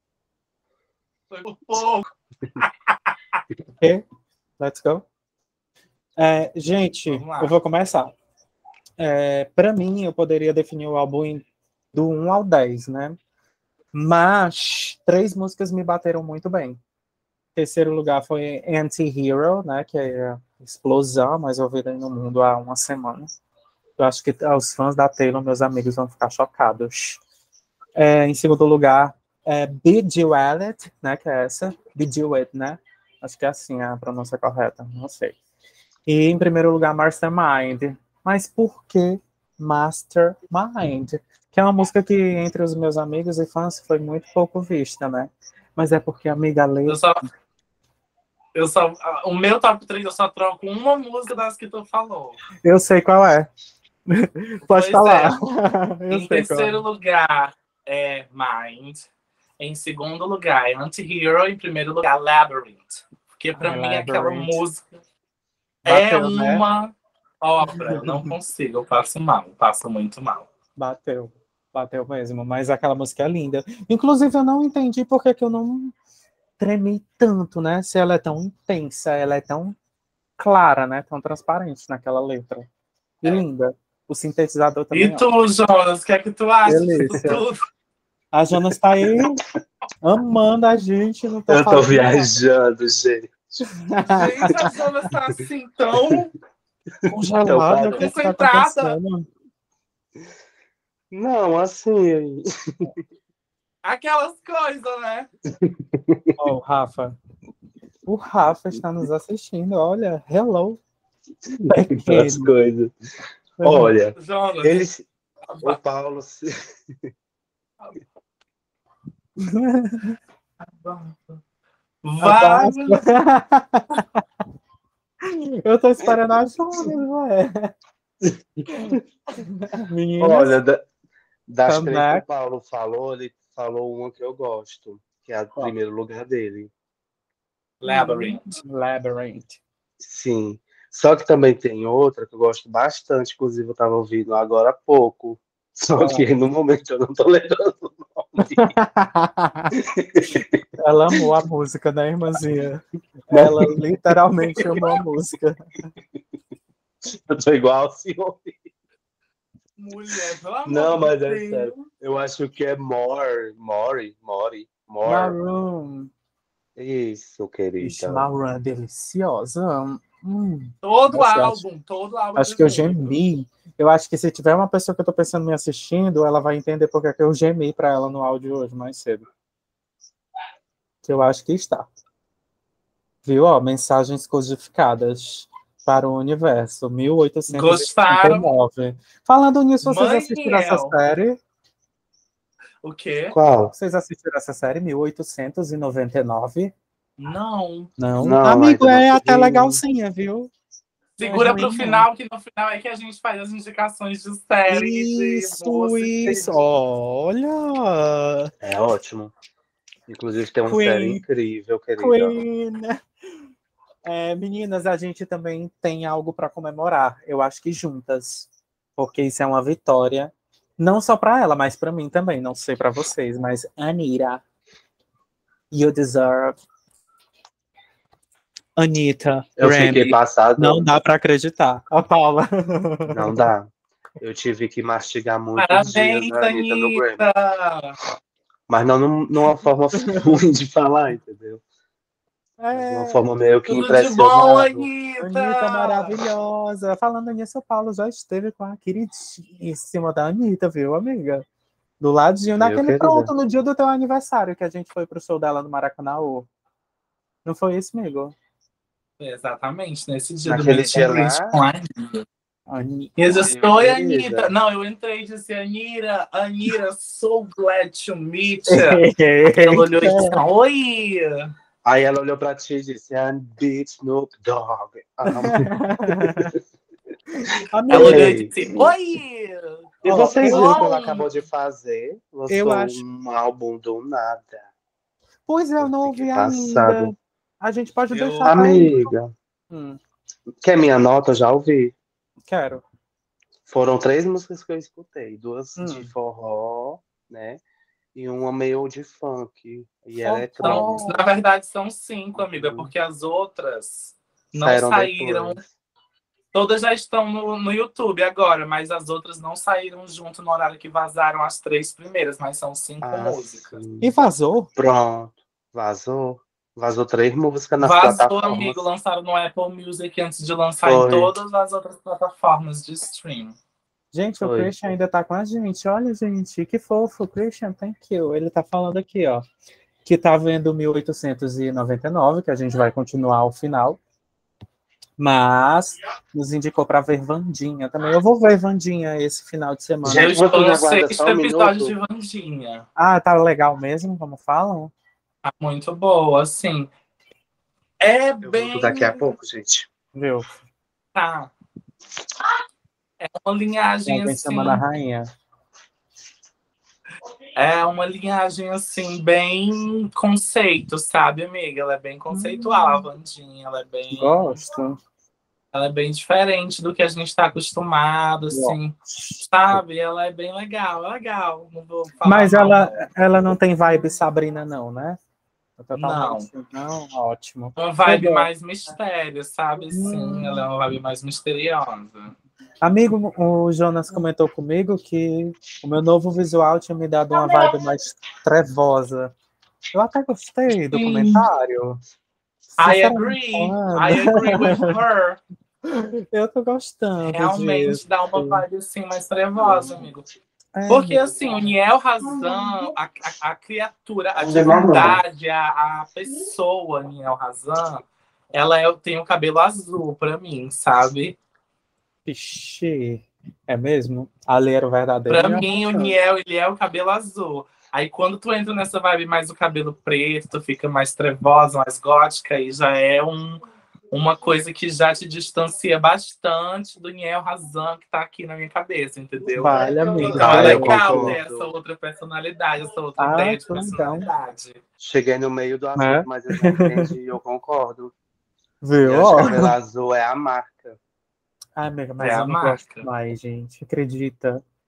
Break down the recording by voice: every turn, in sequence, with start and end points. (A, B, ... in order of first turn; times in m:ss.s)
0:01.3-0:02.1 A
0:02.6-0:03.4 A
0:04.6-0:05.1 B
0:06.2-0:08.2 B
0:07.1-0:07.5 A
0:09.0-0:13.2 B
0:13.9-0:16.8 B
0:17.6-0:23.3 B
0:24.0-0:27.2 B
0:28.0-0:35.4 B
0:36.1-0:47.0 B
0:46.9-0:47.2 A
0:48.6-0:52.4 A
0:52.6-0:53.5 B
0:54.1-0:56.8 B
0:54.7-0:55.4 A
0:56.1-0:59.1 A
0:59.6-1:04.9 A
1:03.6-1:04.6 B
1:05.8-1:06.6 B
1:05.9-1:10.5 A
1:07.7-1:08.3 B
1:10.8-1:15.9 B
1:16.6-1:19.8 B
1:20.4-1:22.7 B
1:23.2-1:25.2 B
1:24.9-1:27.6 A
1:26.7-1:27.4 B
1:28.3-1:29.4 B
1:30.0-1:32.3 B
1:31.5-1:33.3 C
1:33.9-1:34.7 B
1:34.1-1:36.3 A
1:37.1-1:39.3 B
1:37.5-1:38.1 C
1:38.0-1:39.0 A
1:41.1-1:42.9 C
1:43.8-1:45.3 A
1:45.6-1:46.3 C
1:46.4-1:47.2 B
1:48.1-1:50.8 B
1:51.5-1:52.9 C
1:51.7-1:52.5 B
1:53.6-1:53.9 B
1:53.6-1:55.0 C
1:54.2-1:54.8 A
1:55.5-1:55.8 A
1:55.6-1:56.6 C
1:59.4-2:00.2 B
2:00.7-2:01.4 A
2:02.0-2:03.0 A
2:02.2-2:04.0 B
2:05.2-2:07.7 B
2:08.2-2:08.9 C
2:08.8-2:10.6 B
2:10.2-2:10.9 C
2:11.5-2:16.7 C
2:11.7-2:12.2 B
2:17.8-2:18.5 A
2:17.9-2:19.6 B
2:20.0-2:28.7 C
2:26.0-2:26.3 B
2:28.4-2:29.8 B
2:29.8-2:30.6 C
2:30.8-2:35.9 B
2:33.3-2:33.8 C
2:34.6-2:34.9 C
2:37.0-2:38.6 C
2:39.8-2:41.8 A
2:40.7-2:45.4 C
2:45.0-2:46.1 B
2:46.8-2:48.3 C
2:47.8-2:51.6 B
2:50.8-2:53.2 A
2:52.4-2:59.2 B
3:01.0-3:01.9 B
3:03.2-3:11.4 B
3:07.5-3:08.5 A
3:09.8-3:11.0 A
3:12.8-3:13.4 A
3:13.3-3:13.7 C
3:13.7-3:16.7 B
3:17.2-3:17.9 A
3:18.0-3:20.5 B
3:18.2-3:19.8 C
3:21.2-3:26.5 A
3:21.2-3:22.1 B
3:24.7-3:28.5 B
3:28.6-3:29.3 C
3:30.1-3:32.4 C
3:30.7-3:31.2 B
3:32.0-3:33.0 B
3:34.0-3:44.4 B
3:45.7-3:46.6 B
3:48.8-3:53.5 B
3:49.6-3:50.9 C
3:53.1-3:57.2 C
3:55.6-3:58.0 A
3:58.7-4:01.6 C
4:02.6-4:03.2 B
4:02.7-4:04.9 C
4:03.7-4:06.2 A
4:05.2-4:11.4 B
4:12.0-4:16.5 B
4:12.6-4:13.3 C
4:17.4-4:18.4 B
4:19.2-4:22.2 A
4:20.5-4:21.5 C
4:22.7-4:23.2 B
4:23.2-4:31.5 A
4:23.3-4:24.5 C
4:28.7-4:30.4 B
4:31.8-4:36.4 C
4:35.3-4:36.5 B
4:37.3-4:38.4 B
4:37.9-4:41.3 A
4:37.9-4:38.9 C
4:40.0-4:40.8 B
4:40.0-4:44.7 C
4:42.5-4:43.0 B
4:45.5-4:49.1 B
4:45.8-4:47.1 C
4:48.1-4:48.6 A
4:48.4-4:49.3 C
4:49.7-4:50.0 B
4:50.6-4:51.9 C
4:52.5-4:52.8 B
4:53.7-4:57.6 C
4:55.8-4:56.1 B
4:58.2-5:01.0 C
5:00.2-5:01.3 B
5:00.6-5:05.6 A
5:02.3-5:02.9 C
5:04.6-5:05.6 C
5:06.5-5:13.8 A
5:13.0-5:14.1 C
5:14.0-5:14.7 B
5:14.8-5:18.8 C
5:17.8-5:23.6 A
5:20.8-5:21.4 C
5:24.1-5:29.4 B
5:24.4-5:24.7 C
5:30.0-5:34.0 B
5:35.2-5:40.4 B
5:40.0-5:41.9 C
5:40.1-5:42.9 A
5:43.0-5:44.9 B
5:45.4-5:46.9 A
5:48.0-5:49.2 A
5:48.4-5:49.9 C
5:50.1-5:50.5 B
5:51.2-5:51.5 A
5:53.2-5:54.8 A
5:54.1-5:55.3 B
5:57.6-6:04.6 A
6:02.3-6:03.1 B
6:04.1-6:05.0 B
6:05.7-6:13.0 A
6:08.5-6:09.4 B
6:12.2-6:15.2 B
6:15.8-6:18.5 B
6:16.0-6:16.5 A
6:17.8-6:22.4 A
6:19.9-6:20.6 B
6:22.8-6:29.3 B
6:27.3-6:27.8 A
6:29.9-6:32.0 B
6:30.7-6:31.4 A
6:32.7-6:35.0 B
6:32.8-6:35.4 A
6:35.9-6:38.6 B
6:37.3-6:40.3 A
6:40.8-6:41.3 B
6:40.9-6:51.4 A
6:44.4-6:45.2 C
6:52.3-6:56.2 B
6:55.3-7:14.8 A
7:09.6-7:11.4 B
7:10.3-7:11.7 C
7:13.2-7:14.3 B
7:15.0-7:18.1 C
7:16.0-7:17.1 B
7:18.8-7:19.8 B
7:19.0-7:21.0 C
7:21.8-7:24.6 B
7:22.2-7:23.1 A